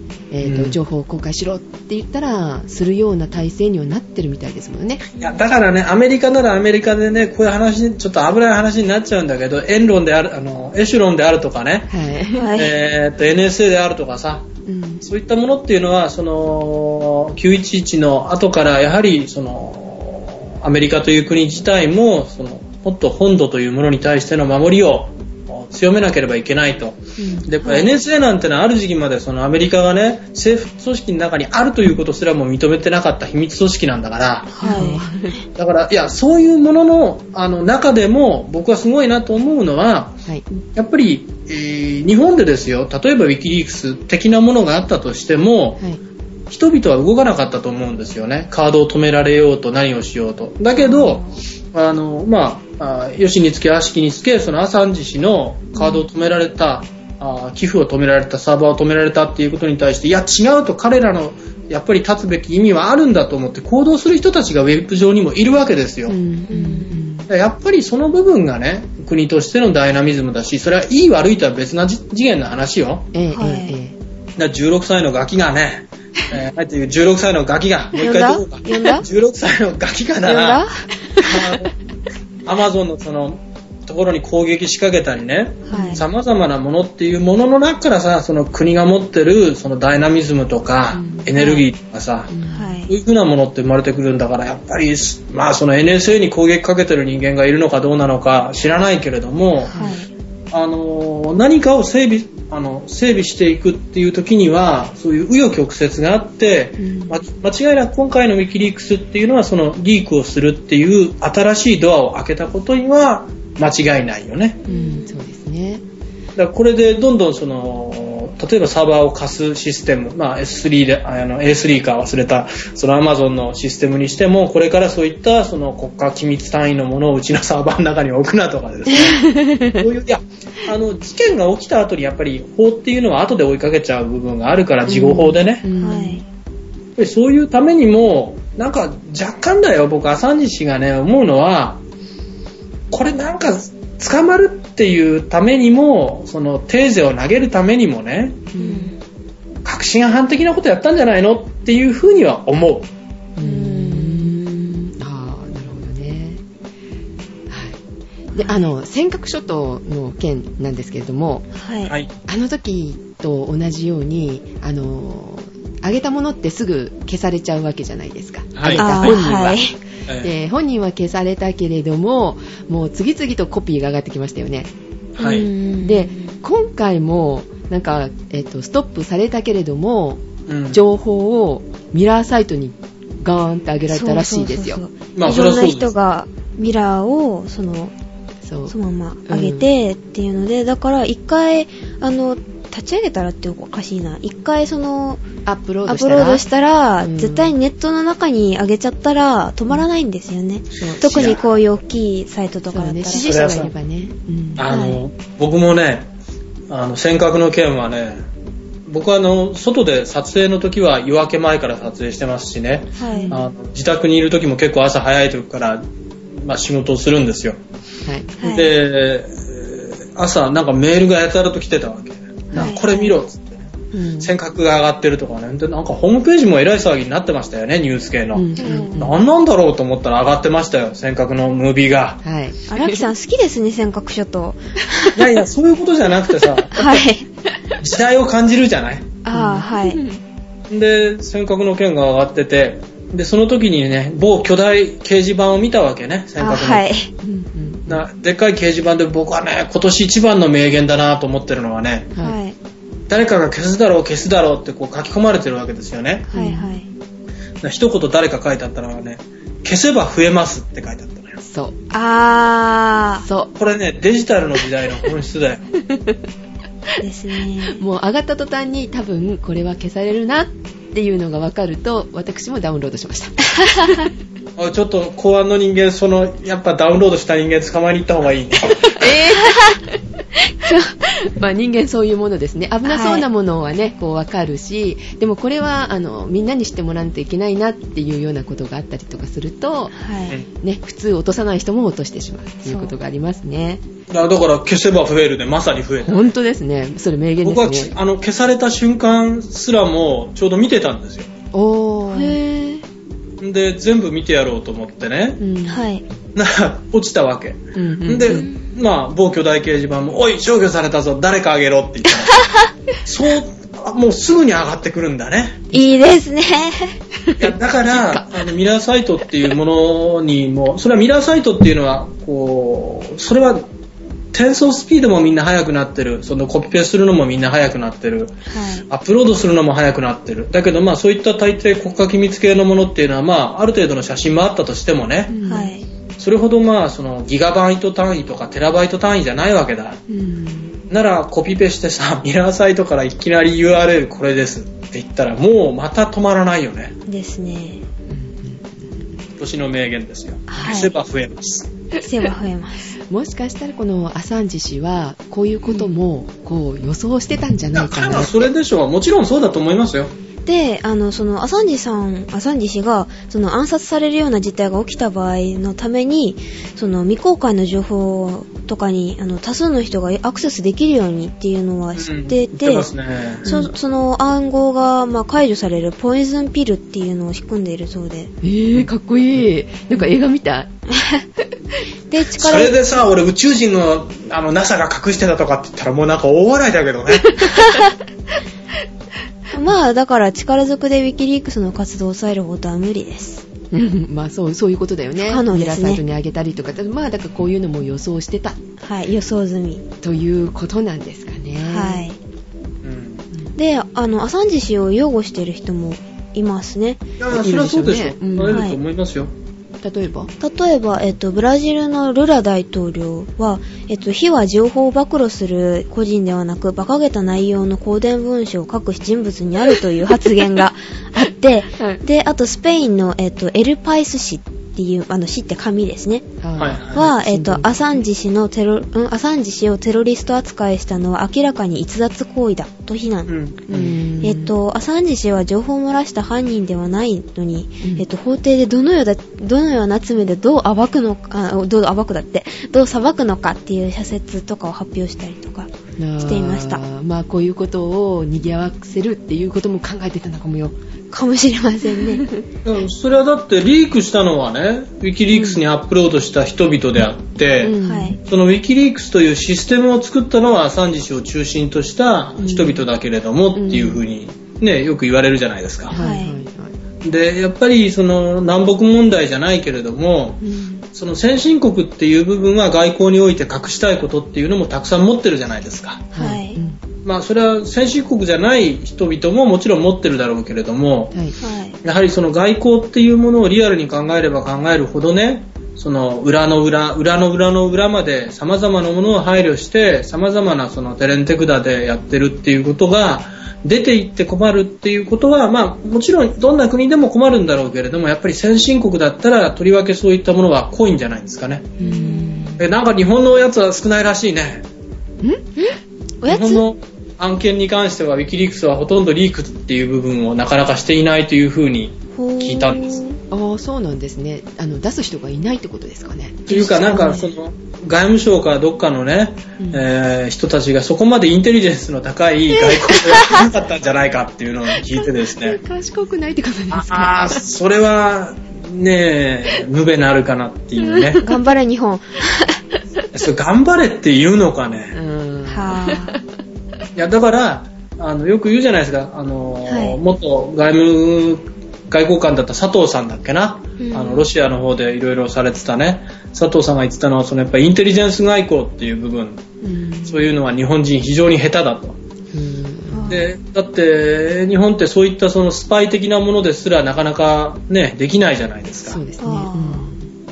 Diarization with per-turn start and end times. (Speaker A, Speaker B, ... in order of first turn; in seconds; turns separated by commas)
Speaker A: 0.3-5.1, Speaker B: 0.4-0.8, Speaker B: 5.2-11.9, Speaker A: 11.9-12.5, Speaker C: 12.3-12.8, Speaker B: 12.6-14.5, Speaker A: 14.7-15.1, Speaker B: 15.0-34.9, Speaker A: 27.2-27.5, Speaker C: 27.6-27.9, Speaker C: 34.5-35.0, Speaker A: 34.6-35.4, Speaker B: 35.5-45.8, Speaker B: 46.5-66.2, Speaker C: 50.8-51.4, Speaker C: 55.8-56.0, Speaker A: 66.1-67.3, Speaker C: 66.5-67.0, Speaker B: 67.3-73.1, Speaker A: 73.1-74.0, Speaker C: 73.3-73.8, Speaker B: 74.4-80.7, Speaker C: 77.9-79.0, Speaker C: 80.2-80.8, Speaker B: 81.2-81.7, Speaker B: 82.5-92.3, Speaker C: 85.7-86.0, Speaker A: 85.7-86.0, Speaker A: 90.9-91.3, Speaker C: 91.3-91.7, Speaker A: 92.3-92.8, Speaker C: 92.5-92.9, Speaker B: 92.9-99.7, Speaker C: 99.7-100.1, Speaker A: 99.7-100.0, Speaker B: 100.5-114.6, Speaker A: 106.8-107.2, Speaker C: 114.7-115.2, Speaker A: 114.7-115.8, Speaker B: 116.4-135.6, Speaker A: 129.2-129.8, Speaker A: 134.9-136.2, Speaker C: 135.8-136.2, Speaker B: 137.0-141.8, Speaker B: 142.9-148.5, Speaker A: 148.5-148.9, Speaker C: 148.6-149.0, Speaker B: 149.6-152.9, Speaker A: 153.4-156.4, Speaker C: 153.4-154.4, Speaker A: 157.5-157.8, Speaker C: 158.3-158.7, Speaker A: 158.3-161.5, Speaker C: 161.6-161.9, Speaker A: 162.3-174.7, Speaker B: 168.6-169.2, Speaker C: 168.8-169.8, Speaker B: 175.2-175.5, Speaker C: 175.2-176.4, Speaker A: 175.8-184.8, Speaker B: 180.5-180.8, Speaker C: 183.9-187.9, Speaker B: 185.2-185.9, Speaker A: 188.4-188.8, Speaker C: 188.7-195.2, Speaker A: 189.3-189.7, Speaker A: 195.5-196.4, Speaker C: 195.9-203.3, Speaker A: 197.0-197.6, Speaker A: 200.8-201.4, Speaker B: 200.8-201.4, Speaker A: 202.7-204.7, Speaker B: 203.1-203.7, Speaker B: 204.6-206.1, Speaker C: 204.7-205.0, Speaker B: 206.7-208.2, Speaker B: 208.9-215.8, Speaker C: 213.0-213.4, Speaker A: 213.1-213.4, Speaker B: 216.4-217.6, Speaker A: 218.1-218.3, Speaker C: 218.4-218.7, Speaker B: 218.4-232.2, Speaker A: 222.5-222.8, Speaker C: 222.5-223.1, Speaker A: 223.9-224.3, Speaker A: 228.3-229.2, Speaker C: 228.6-229.0, Speaker A: 232.2-233.1, Speaker C: 232.7-235.2, Speaker B: 235.1-237.0, Speaker C: 236.7-237.3, Speaker B: 237.8-239.1, Speaker C: 239.2-240.0, Speaker A: 239.3-240.2, Speaker B: 240.7-246.9, Speaker C: 246.4-247.1, Speaker A: 247.2-248.0, Speaker B: 247.9-252.1, Speaker C: 252.2-252.6, Speaker B: 253.1-256.3, Speaker C: 256.3-256.9, Speaker A: 256.3-256.8, Speaker B: 257.6-261.4, Speaker A: 261.4-261.8, Speaker C: 261.9-263.3, Speaker A: 263.2-263.5, Speaker B: 263.6-265.7, Speaker A: 265.9-266.2, Speaker C: 267.0-267.8, Speaker A: 267.7-274.1, Speaker B: 274.6-279.2, Speaker A: 278.8-280.0, Speaker C: 279.5-279.8, Speaker C: 280.6-280.9, Speaker A: 281.0-290.0, Speaker C: 282.9-283.2, Speaker C: 289.9-290.4, Speaker A: 290.6-293.8, Speaker C: 292.7-292.9, Speaker B: 294.1-296.3, Speaker A: 296.0-297.9, Speaker B: 297.4-301.3, Speaker A: 301.5-302.4, Speaker C: 302.1-302.8, Speaker B: 303.4-305.4, Speaker A: 305.4-305.8, Speaker C: 305.7-306.0, Speaker B: 306.4-315.7, Speaker A: 307.8-308.5, Speaker C: 308.3-308.7, Speaker C: 312.4-312.7, Speaker C: 315.7-317.0, Speaker A: 317.3-318.4, Speaker B: 317.4-323.7, Speaker B: 324.3-335.4, Speaker C: 328.5-328.9, Speaker A: 335.3-335.7, Speaker C: 335.4-335.9, Speaker B: 336.2-340.0, Speaker A: 340.1-340.8, Speaker B: 340.9-347.0, Speaker C: 347.1-347.9, Speaker A: 348.1-349.2, Speaker B: 349.4-351.7, Speaker C: 350.5-351.0, Speaker C: 352.0-352.9, Speaker A: 353.1-358.5, Speaker B: 357.7-360.1, Speaker C: 360.4-372.9, Speaker B: 371.9-373.5, Speaker A: 373.4-373.7, Speaker C: 373.5-378.3, Speaker A: 378.4-380.7, Speaker C: 381.0-381.2, Speaker C: 382.1-382.9, Speaker B: 382.4-387.4, Speaker C: 387.6-387.9, Speaker C: 389.5-393.5, Speaker A: 393.7-398.6, Speaker C: 395.2-396.0, Speaker C: 398.8-399.8, Speaker A: 400.0-402.1, Speaker C: 401.6-402.2, Speaker B: 402.8-403.3, Speaker C: 403.6-407.0, Speaker B: 407.2-409.3, Speaker A: 407.3-408.6, Speaker C: 408.5-408.8, Speaker A: 409.8-410.3, Speaker C: 410.4-426.3, Speaker A: 421.8-422.0, Speaker A: 426.4-428.0, Speaker B: 426.6-427.1, Speaker C: 426.9-433.3, Speaker B: 433.3-434.0, Speaker A: 433.7-434.5, Speaker C: 434.2-446.8, Speaker A: 446.0-450.8, Speaker C: 451.1-452.2, Speaker A: 452.0-452.4, Speaker B: 452.6-466.0, Speaker A: 455.3-455.6, Speaker A: 457.6-458.2, Speaker C: 457.8-458.2, Speaker A: 462.4-462.9, Speaker A: 463.6-464.0, Speaker A: 465.9-466.8, Speaker C: 465.9-466.4, Speaker B: 467.0-470.4, Speaker A: 470.4-470.9, Speaker B: 470.9-476.1, Speaker A: 476.1-476.8, Speaker C: 476.1-476.6, Speaker B: 477.1-481.2, Speaker C: 481.4-481.8, Speaker B: 481.8-501.8, Speaker A: 501.8-502.6, Speaker C: 501.8-502.6, Speaker B: 502.6-504.6, Speaker C: 505.6-506.6, Speaker B: 506.3-513.0, Speaker C: 512.1-513.2, Speaker A: 513.3-517.3, Speaker B: 516.5-525.6, Speaker C: 516.9-517.2, Speaker A: 519.6-519.9, Speaker A: 525.0-527.4, Speaker B: 526.7-531.2, Speaker A: 530.8-531.4, Speaker C: 531.2-532.6, Speaker B: 533.1-535.0, Speaker A: 534.9-536.2, Speaker C: 535.5-536.2, Speaker B: 537.0-549.4, Speaker C: 539.7-540.0, Speaker C: 543.8-544.3, Speaker A: 549.6-550.3, Speaker B: 550.1-552.0, Speaker A: 552.3-553.2, Speaker C: 552.9-553.3, Speaker B: 553.1-559.0, Speaker A: 558.9-560.1, Speaker C: 559.2-559.9